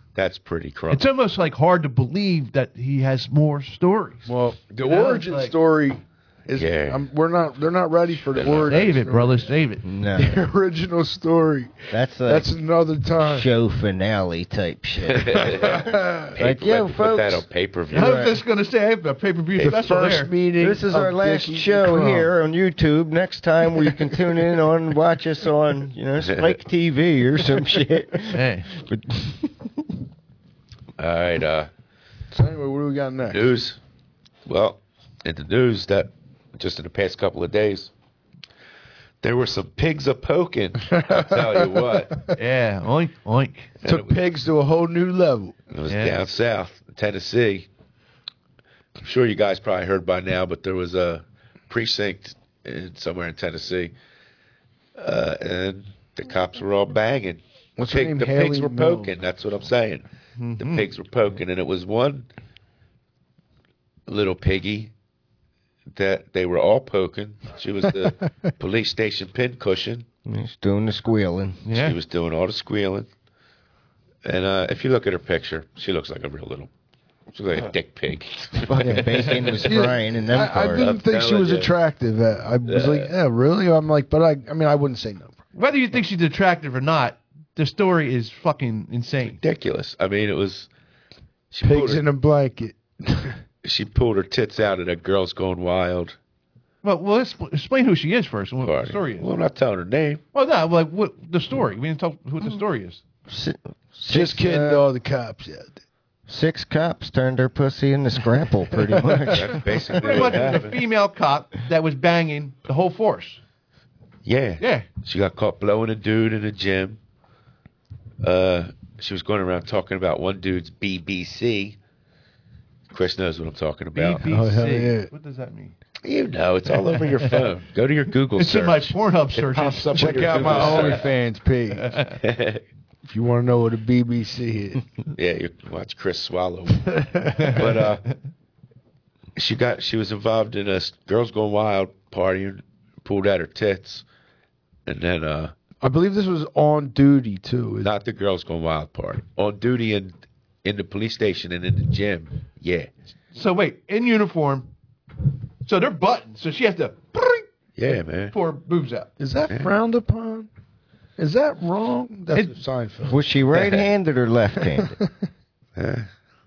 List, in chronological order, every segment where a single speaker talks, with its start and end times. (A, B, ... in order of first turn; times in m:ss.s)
0:00.2-0:01.0 A
0:00.9-0:04.3 B
0:04.3-0:09.5 C
0:04.8-0:05.6 B
0:06.6-0:07.0 A
0:08.3-0:08.8 A
0:08.7-0:09.8 B
0:09.8-0:10.4 D
0:10.2-0:13.5 C
0:11.9-0:12.5 D
0:13.2-0:18.4 D
0:15.1-0:18.2 A
0:15.4-0:16.4 C
0:17.9-0:20.3 B
0:19.6-0:22.3 C
0:20.6-0:29.9 D
0:26.2-0:26.5 A
0:28.3-0:28.7 B
0:31.0-0:31.7 A
0:32.3-0:33.5 C
0:33.3-0:33.8 A
0:34.5-0:37.9 A
0:39.2-0:42.2 A
0:40.9-0:42.3 C
0:42.4-0:43.7 B
0:43.8-0:44.3 A
0:43.8-0:45.6 C
0:45.7-0:47.7 A
0:45.9-0:46.2 B
0:49.0-0:53.9 A
0:55.0-1:00.0 A
0:57.8-0:59.1 C
1:00.4-1:00.9 B
1:00.6-1:02.3 A
1:04.1-1:04.9 A
1:05.9-1:10.1 A
1:10.2-1:11.6 D
1:11.6-1:12.0 B
1:11.8-1:13.1 A
1:14.2-1:16.7 A
1:17.3-1:19.6 A
1:18.5-1:20.9 D
1:18.8-1:25.4 C
1:20.7-1:21.7 A
1:22.6-1:23.1 A
1:25.6-1:29.4 B
1:29.2-1:30.7 A
1:31.5-1:32.0 A
1:31.6-1:33.4 C
1:33.6-1:36.2 A
1:36.8-1:39.3 B
1:38.6-1:40.2 A
1:40.3-1:43.0 B
1:43.3-1:44.9 D
1:44.1-1:45.8 C
1:46.3-1:50.4 D
1:49.0-1:49.4 C
1:49.3-1:50.8 A
1:50.0-1:53.4 B
1:54.2-1:57.0 A
1:54.6-1:54.9 B
1:58.2-2:01.8 A
2:02.9-2:04.3 A
2:04.0-2:05.8 B
2:04.3-2:05.1 C
2:06.0-2:11.1 A
2:07.0-2:07.4 B
2:08.4-2:11.1 B
2:10.0-2:12.0 C
2:11.8-2:12.2 B
2:12.2-2:12.6 A
2:13.1-2:14.8 C
2:15.1-2:18.0 A
2:16.9-2:17.7 C
2:17.4-2:17.8 B
2:19.4-2:24.0 A
2:24.9-2:25.5 A
2:25.8-2:27.9 C
2:27.8-2:32.9 A
2:33.3-2:34.7 B
2:35.6-2:39.1 B
2:37.8-2:38.3 A
2:39.2-2:40.5 C
2:41.2-2:43.3 C
2:43.1-2:45.0 D
2:44.7-2:45.1 C
2:45.8-2:46.1 A